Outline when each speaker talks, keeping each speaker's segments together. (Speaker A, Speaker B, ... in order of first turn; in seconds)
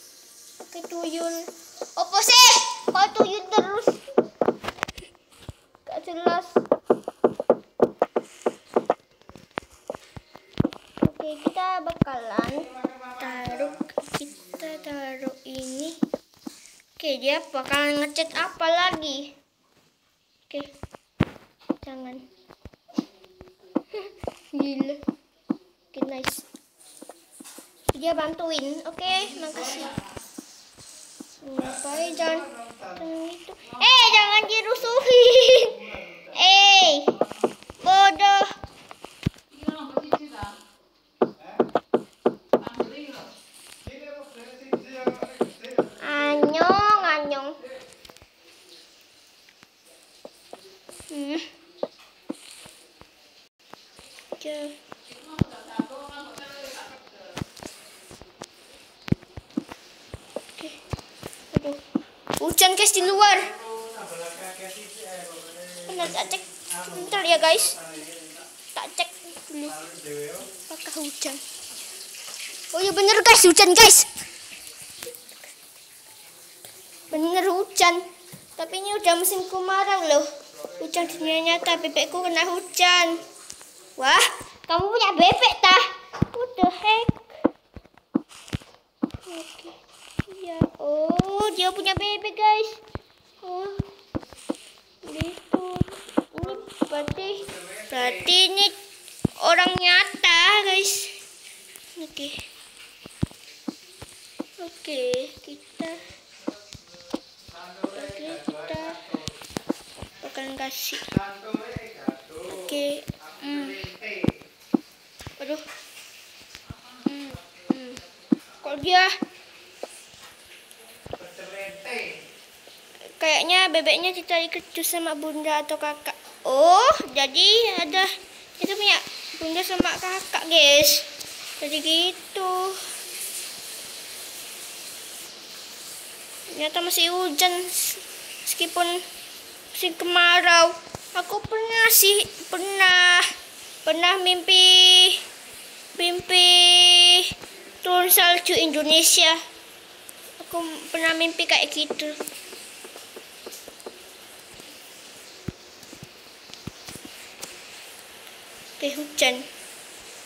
Speaker A: 0.6-4.0, 5.8-6.6, 11.0-16.0, 17.0-19.3, 21.8-22.2, 23.9-25.0, 25.9-26.4, 27.9-30.0, 31.4-37.1, 37.8-38.5, 46.0-47.6, 51.1-51.5, 54.4-54.8, 61.5-61.8, 62.4-63.6, 65.8-67.8, 68.8-69.8, 70.6-71.4, 72.7-74.1, 77.1-83.2, 84.0-87.3, 89.3-92.8, 93.4-93.8, 95.0-98.8, 99.4-101.2, 102.0-102.4, 104.6-106.1, 107.9-109.2, 110.2-111.1, 112.5-114.0, 117.0-118.0, 118.6-119.1, 123.2-131.1, 131.6-133.0, 136.5-139.0, 139.7-143.3, 143.9-145.2, 146.0-149.4, 150.4-152.2, 158.8-159.5